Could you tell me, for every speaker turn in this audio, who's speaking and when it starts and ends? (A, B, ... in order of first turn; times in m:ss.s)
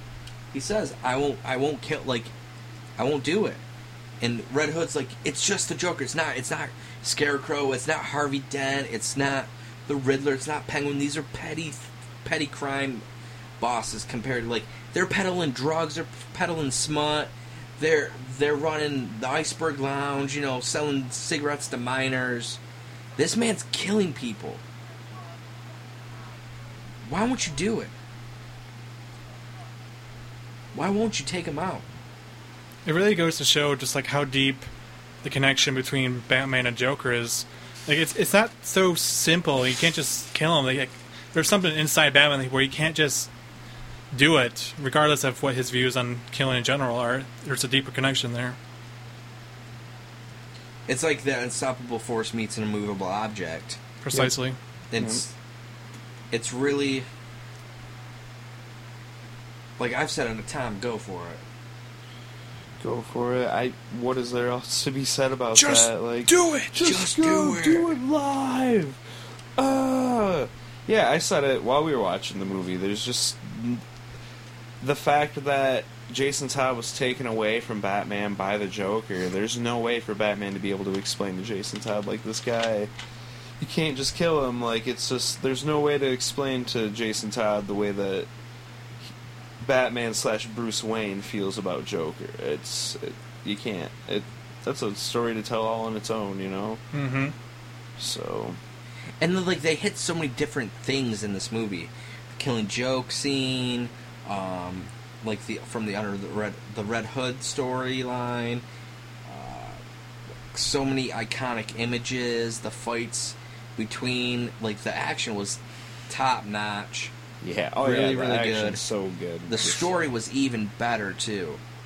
0:00.5-0:02.3 A
0:03.0-0:03.6 A
0:04.2-0:13.0 A
0:13.6-0:22.6 A
0:23.2-0:24.6 A
0:27.0-0:27.9 A
0:30.7-0:31.8 A
0:32.8-0:34.7 B
0:35.2-0:43.3 B
0:44.1-0:48.6 B
0:50.9-0:53.8 A
0:54.0-0:54.6 B
0:54.9-0:55.3 A
0:55.0-0:55.2 C
0:56.3-0:57.1 A
0:59.8-1:01.4 A
1:02.8-1:09.0 C
1:05.6-1:06.7 B
1:06.8-1:08.0 A
1:09.6-1:13.8 C
1:14.8-1:22.9 C
1:23.6-1:28.3 C
1:29.6-1:36.8 C
1:36.9-1:37.3 B
1:38.0-1:38.6 C
1:39.2-1:48.6 A
1:49.2-1:49.8 A
1:50.5-1:57.1 A
1:57.4-2:00.0 C
1:57.8-1:58.8 A
1:59.5-2:01.6 A